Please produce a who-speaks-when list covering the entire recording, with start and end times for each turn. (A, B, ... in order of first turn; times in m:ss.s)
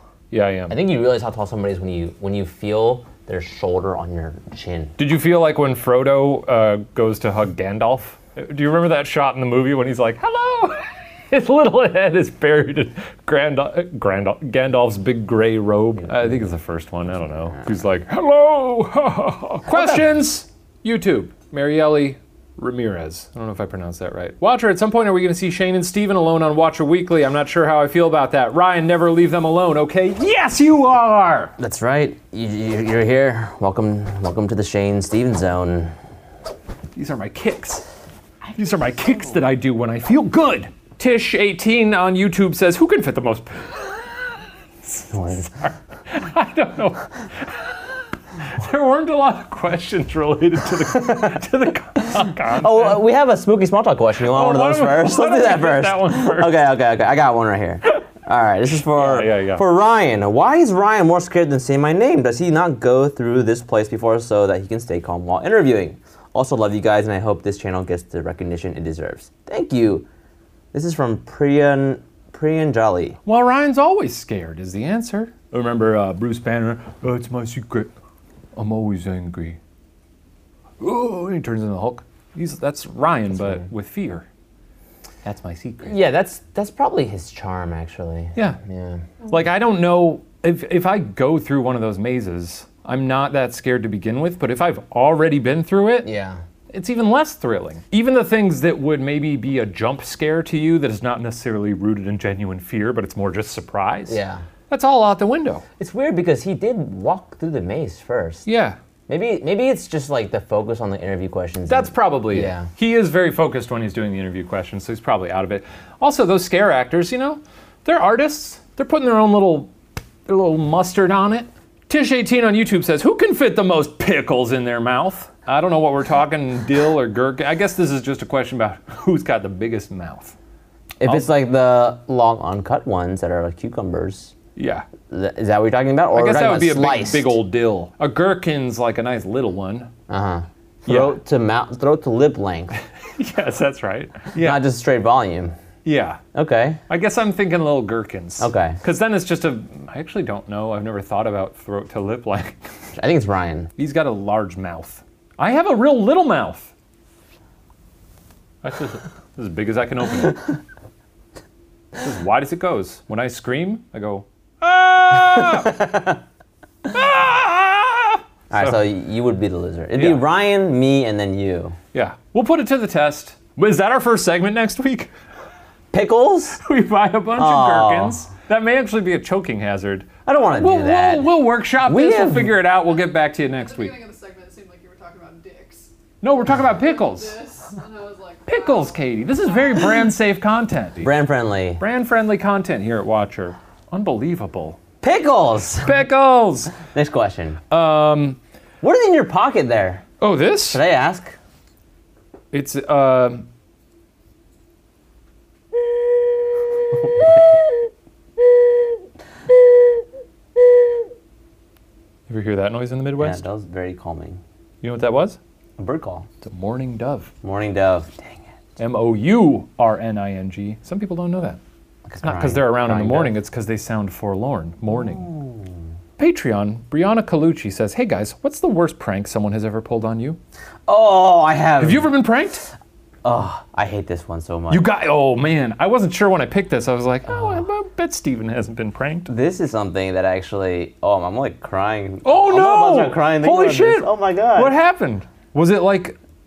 0:00.3-0:00.8 A
0:00.7-0:04.9 B
0:05.0-0:31.5 A
0:16.1-0:16.5 B
0:17.1-0:17.7 B
0:19.7-0:20.0 B
0:31.6-0:35.9 B
0:36.9-0:37.8 A
0:38.5-0:39.3 B
0:38.5-0:44.1 A
0:44.8-0:47.7 A
0:45.1-0:45.5 B
0:48.4-0:53.0 A
0:50.9-0:51.4 B
0:52.1-1:10.1 B
0:54.2-0:56.6 A
0:58.9-0:59.6 A
1:10.7-1:13.2 B
1:13.2-1:17.9 A
1:18.6-1:19.6 A
1:20.8-1:24.2 A
1:23.3-1:23.7 B
1:25.2-1:26.0 A
1:25.8-1:29.1 B
1:29.3-1:36.1 A
1:36.0-1:36.4 B
1:36.7-1:45.6 A
1:44.1-1:44.4 B
1:45.8-1:48.5 B
1:48.4-1:48.8 A
1:49.1-1:52.7 B
1:51.7-1:59.7 A
2:00.2-2:10.3 A
2:11.0-2:14.3 B
2:14.6-2:14.8 A
2:15.1-2:17.4 B
2:16.1-2:19.9 A
2:20.1-2:22.7 B
2:20.9-2:21.2 A
2:23.2-2:24.6 A
2:24.3-2:25.5 B
2:25.8-2:26.2 A
2:26.3-2:26.8 B
2:26.9-2:32.6 A
2:28.4-2:28.8 B
2:32.9-2:33.7 B
2:33.8-2:36.7 A
2:38.6-2:40.5 A
2:42.0-2:45.8 A
2:45.3-2:46.2 B
2:46.9-2:48.8 A
2:48.5-2:51.8 B
2:49.9-2:50.2 A
2:51.9-2:55.1 A
2:55.9-2:56.6 B
2:56.6-3:04.0 A
2:57.4-2:58.2 B
3:00.2-3:02.6 B
3:02.9-3:09.8 C
3:06.2-3:07.4 A
3:08.4-3:11.1 A
3:11.0-3:11.8 B
3:11.8-3:14.8 A
3:15.0-3:16.0 B
3:15.8-3:16.8 A
3:16.8-3:17.6 B
3:17.7-3:18.4 A
3:18.8-3:20.0 B
3:20.2-3:20.8 A
3:20.7-3:21.4 B
3:22.5-3:23.5 A
3:26.9-3:27.6 B
3:32.3-3:33.4 A
3:33.2-3:34.4 B
3:34.8-3:35.4 A
3:35.8-3:36.3 B
3:36.4-3:37.3 A
3:37.4-3:38.3 B
3:38.8-3:41.6 A
3:42.0-3:43.4 B
3:42.2-3:45.3 A
3:44.9-3:45.8 B
3:46.2-3:50.4 A
3:50.9-3:52.1 B
3:51.8-3:52.6 A
3:53.2-3:54.8 B
3:54.7-3:59.3 A
3:57.3-3:57.6 B
3:59.3-4:04.8 B
4:02.2-4:06.2 A